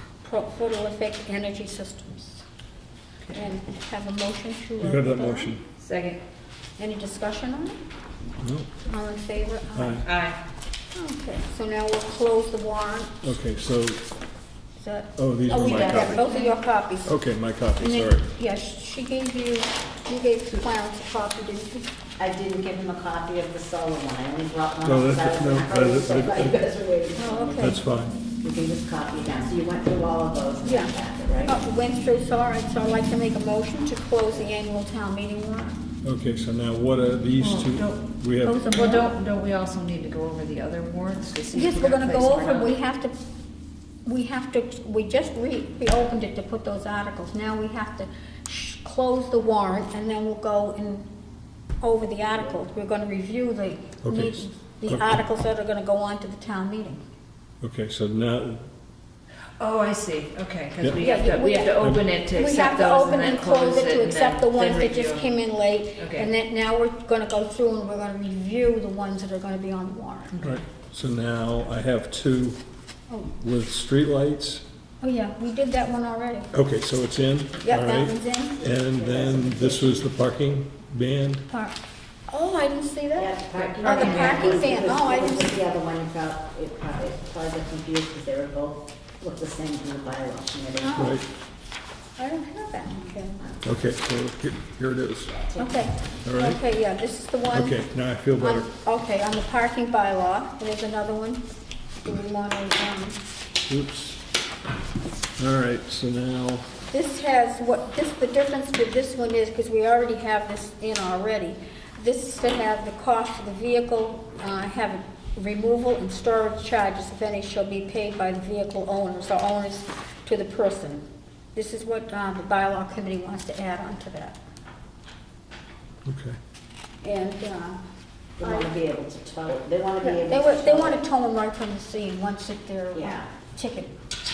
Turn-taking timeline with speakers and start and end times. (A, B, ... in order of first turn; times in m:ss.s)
0:00.2-0:02.4 A
0:03.3-0:05.5 A
0:04.8-0:05.6 B
0:05.8-0:06.2 C
0:06.8-0:07.8 A
0:08.4-0:08.7 B
0:08.8-0:10.1 A
0:09.8-0:10.1 B
0:10.0-0:10.4 C
0:10.9-0:13.1 A
0:13.2-0:14.0 B
0:14.8-0:17.1 A
0:15.2-0:16.3 B
0:15.5-0:16.4 D
0:17.0-0:18.3 B
0:17.8-0:21.9 A
0:22.2-0:27.8 D
0:24.8-0:26.6 B
0:27.2-0:27.8 A
0:27.6-0:28.2 B
0:28.4-0:31.6 D
0:30.6-0:35.8 A
0:36.0-0:38.7 B
0:37.4-0:38.0 C
0:38.4-0:39.1 A
0:38.7-0:42.7 C
0:41.5-0:43.2 A
0:44.0-0:51.1 A
0:51.8-0:57.0 A
0:54.0-0:55.2 B
0:57.6-0:58.6 B
0:59.6-1:05.2 C
1:01.0-1:01.8 A
1:01.8-1:02.1 B
1:02.3-1:10.4 A
1:06.0-1:06.3 C
1:10.3-1:10.6 C
1:10.4-1:12.6 B
1:13.4-1:14.6 B
1:15.0-1:16.5 A
1:16.5-1:21.4 B
1:17.6-1:18.6 A
1:18.8-1:20.1 D
1:21.5-1:25.6 A
1:23.2-1:31.2 D
1:23.6-1:24.7 C
1:30.7-1:31.2 A
1:31.0-1:31.2 B
1:32.2-1:33.4 A
1:33.6-1:35.4 B
1:35.4-1:35.8 D
1:35.6-1:37.8 A
1:36.2-1:36.6 B
1:37.5-1:38.7 B
1:38.4-1:41.5 A
1:42.0-1:43.2 A
1:43.7-1:44.2 B
1:45.4-1:46.7 B
1:46.9-2:04.4 A
2:06.0-2:06.4 B
2:07.0-2:07.8 A
2:08.4-2:11.0 D
2:08.4-2:08.8 A
2:10.0-2:14.0 A
2:12.9-2:13.3 D